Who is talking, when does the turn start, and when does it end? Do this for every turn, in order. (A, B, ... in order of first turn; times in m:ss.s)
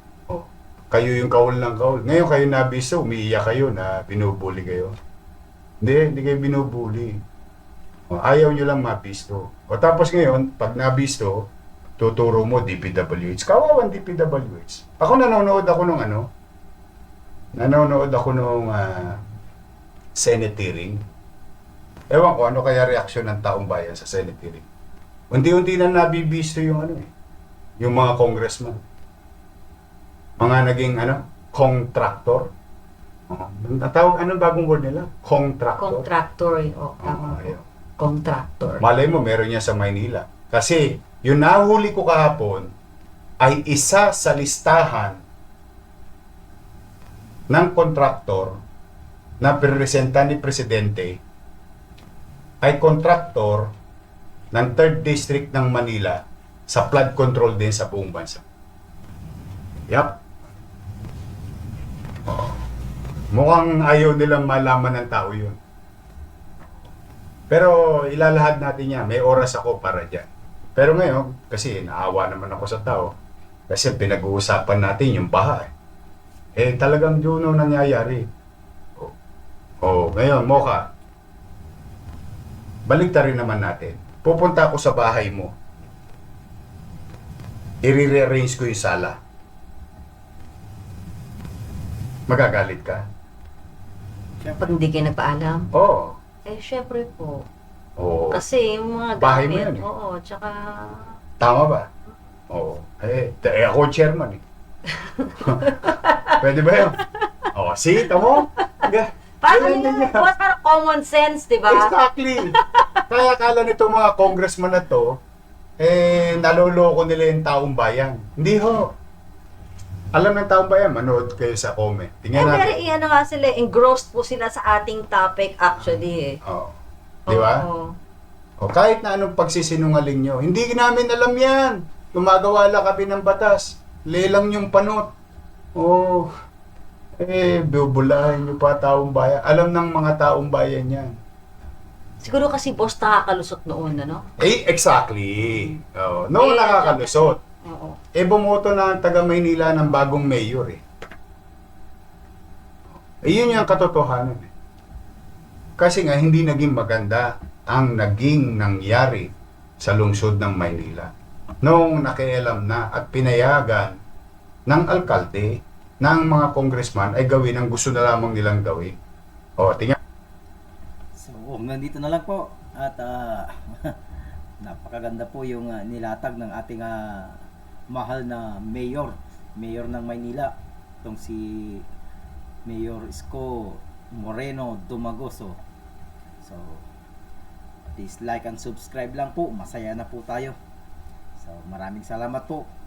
0:00.3-0:05.0 A
0:05.8-0:07.2 A
0:08.1-0:16.3 A
0:17.6-0:19.2 A
0:20.2-0:21.0 A
0:22.1-0:24.6 A
0:25.3-0:27.1 A
0:27.8-0:28.8 A
0:30.4-0:32.5 A
0:33.3-0:36.1 A
0:35.8-0:38.8 B
0:37.0-0:37.6 A
0:38.8-0:42.7 A
0:43.4-0:45.2 A
0:47.5-0:48.6 A
0:49.4-0:51.2 A
0:52.6-0:53.8 A
0:54.5-0:58.4 A
0:59.9-1:00.2 A
1:02.3-1:02.6 A
1:03.3-1:05.6 A
1:07.5-1:13.2 A
1:13.7-1:15.7 A
1:16.6-1:18.3 A
1:19.8-1:20.9 A
1:22.9-1:25.6 A
1:27.8-1:29.2 A
1:32.3-1:33.1 A
1:34.6-1:35.7 B
1:35.7-1:36.2 A
1:36.5-1:37.5 B
1:38.0-1:38.4 A
1:38.3-1:41.2 B
1:39.2-1:39.9 A
1:41.4-1:41.9 A
1:42.5-1:44.4 A
1:44.9-1:47.5 B
1:45.4-1:47.0 A
1:47.5-1:50.3 A
1:48.2-1:48.9 B
1:49.4-1:53.1 B
1:51.7-1:52.6 A
1:53.1-1:55.2 A
1:55.8-1:59.0 A
2:00.1-2:02.8 A
2:02.3-2:06.4 B
2:06.4-2:07.7 A
2:07.3-2:08.0 B
2:08.6-2:15.2 A
2:15.8-2:16.3 A
2:17.2-2:21.2 A
2:22.2-2:24.2 B
2:24.4-2:27.4 A
2:26.4-2:28.0 B
2:28.2-2:30.8 A
2:33.2-2:34.5 A
2:35.8-2:44.0 A
2:44.7-2:49.0 A
2:49.6-2:50.0 A
2:51.2-2:54.0 C
2:54.6-2:57.4 C
2:57.9-3:01.8 C
3:02.7-3:05.6 C
3:06.4-3:06.8 C
3:08.0-3:10.6 C
3:11.4-3:12.7 C